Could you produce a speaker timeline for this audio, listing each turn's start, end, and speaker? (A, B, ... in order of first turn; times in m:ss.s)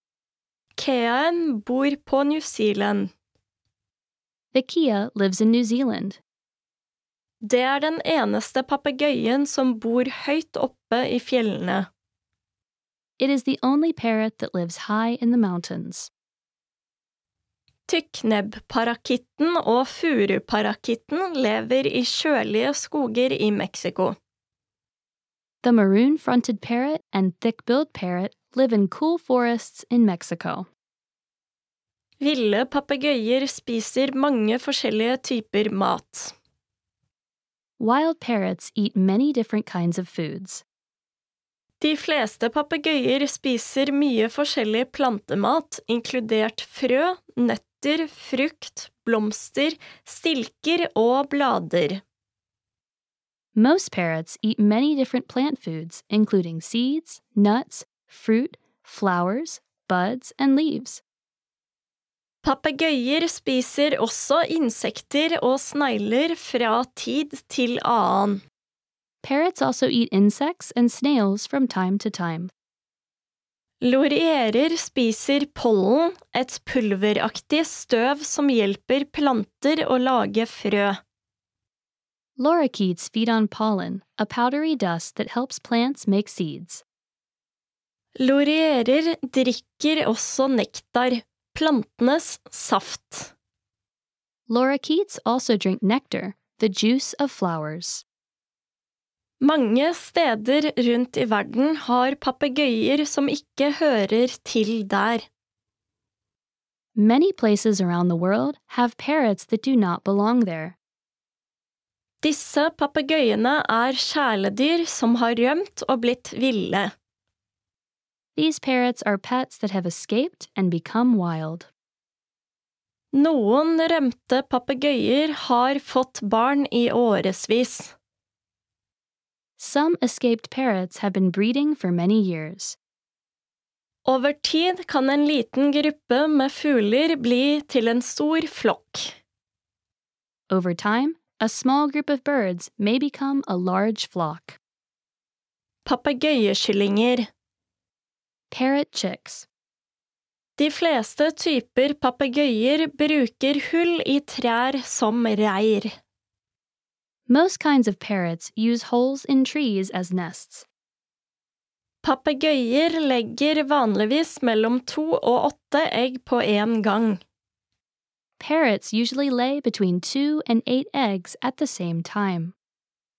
0:00.8-0:03.1 A
0:04.5-0:06.2 B
0:07.4-0:11.9 A
0:13.2-0:16.1 B
0:17.9-0:24.1 A
0:25.6-0:30.7 B
0:32.2-0:36.3 A
0:37.8-0:40.6 B
0:41.8-0:52.0 A
0:53.5-1:01.0 B
1:02.4-1:08.4 A
1:09.2-1:12.5 B
1:13.8-1:21.0 A
1:22.4-1:26.8 B
1:28.2-1:33.3 A
1:34.5-1:38.0 B
1:39.4-1:45.2 A
1:47.0-1:50.8 B
1:52.2-1:56.9 A
1:58.4-2:01.7 B
2:03.1-2:07.9 A
2:09.6-2:12.8 B
2:14.1-2:19.1 A
2:20.5-2:24.6 B
2:25.8-2:27.2 A
2:28.5-2:29.5 B
2:30.6-2:35.9 A
2:37.3-2:40.6 B
2:42.0-2:47.2 A
2:48.4-2:52.5 B